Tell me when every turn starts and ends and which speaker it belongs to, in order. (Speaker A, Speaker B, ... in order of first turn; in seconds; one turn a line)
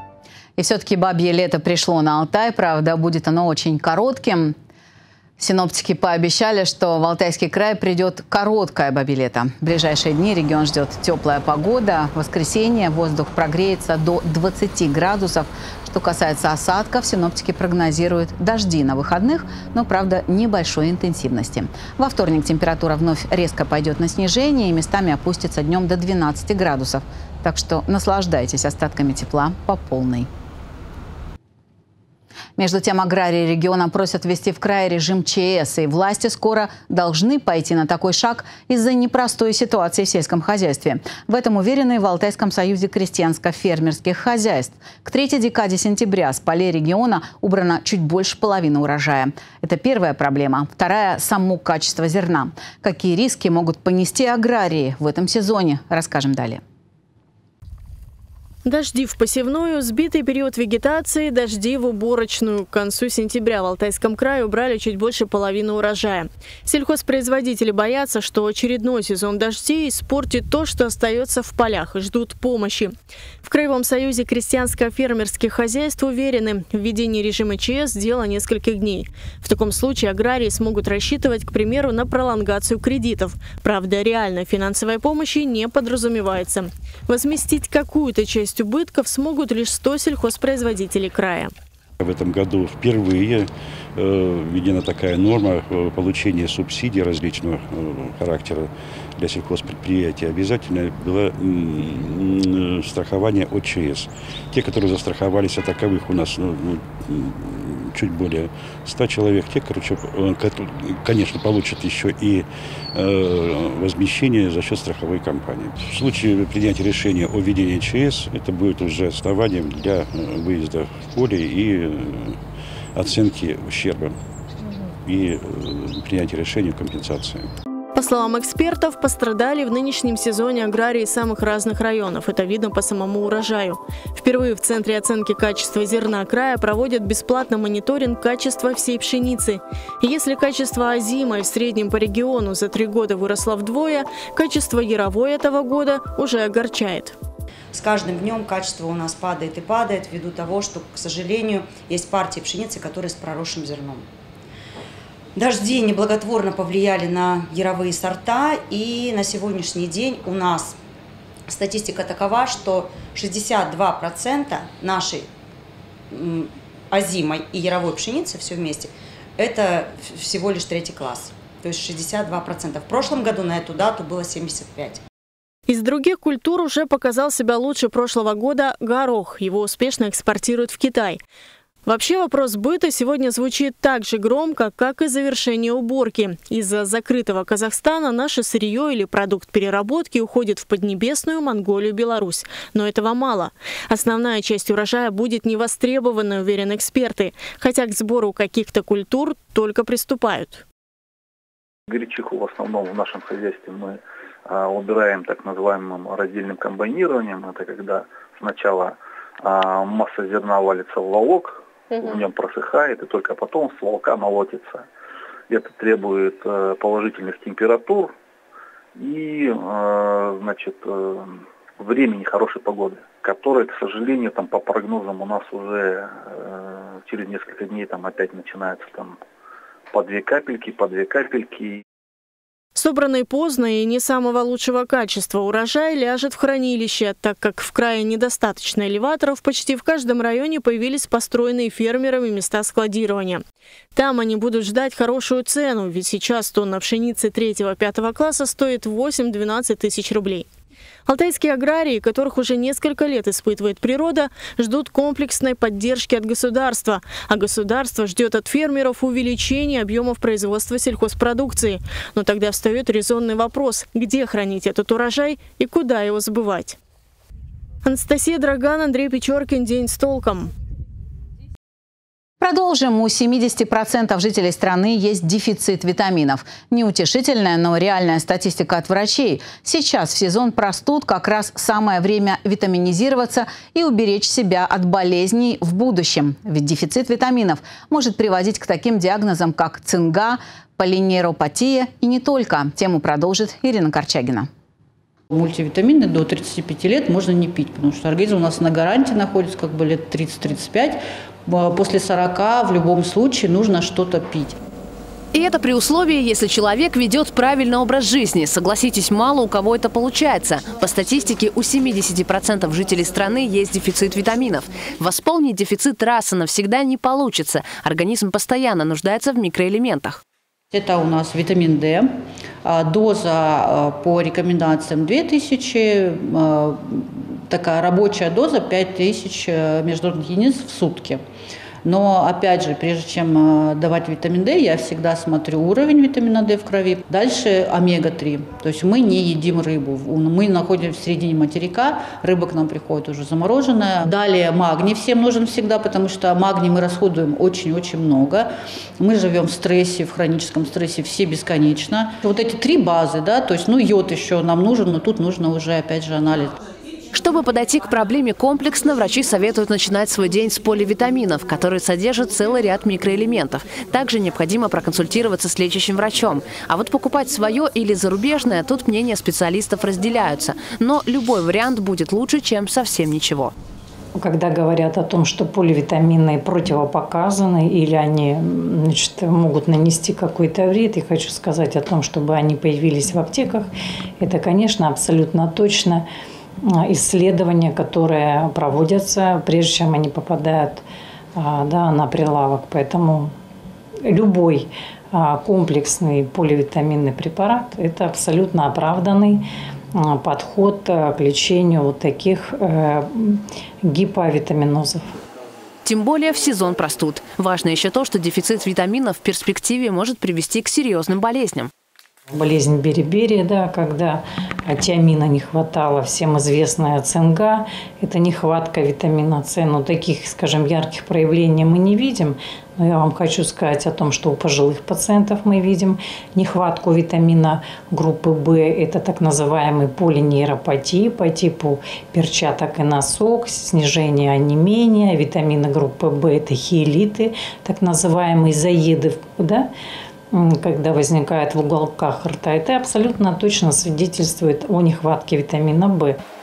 Speaker A: 0.6-4.6
Speaker A: 5.4-30.3
Speaker A: 32.6-56.6
Speaker B: 58.6-72.9
Speaker B: 73.4-91.5
Speaker C: 92.0-122.4
Speaker C: 123.0-124.2
Speaker C: 125.1-127.5
Speaker B: 128.0-147.2
Speaker D: 147.7-154.1
Speaker D: 155.4-160.8
Speaker D: 161.5-165.3
Speaker D: 166.1-175.0
Speaker B: 175.7-181.2
Speaker B: 181.9-200.6
Speaker E: 201.9-214.8
Speaker E: 215.5-218.1
Speaker E: 219.0-229.2
Speaker E: 229.9-231.8
Speaker B: 232.8-243.4
Speaker B: 243.9-250.5
Speaker B: 251.1-266.8
Speaker B: 267.8-270.5
Speaker A: 272.4-294.5
Speaker F: 295.3-304.6
Speaker G: 305.3-320.2
Speaker F: 320.7-322.1
Speaker F: 322.6-331.2
Speaker F: 331.8-356.6
Speaker G: 357.1-373.5
Speaker H: 374.2-386.1
Speaker H: 386.6-390.8
Speaker H: 391.4-393.3
Speaker H: 394.1-405.1
Speaker G: 405.9-411.7
Speaker H: 412.3-439.7
Speaker H: 440.3-446.2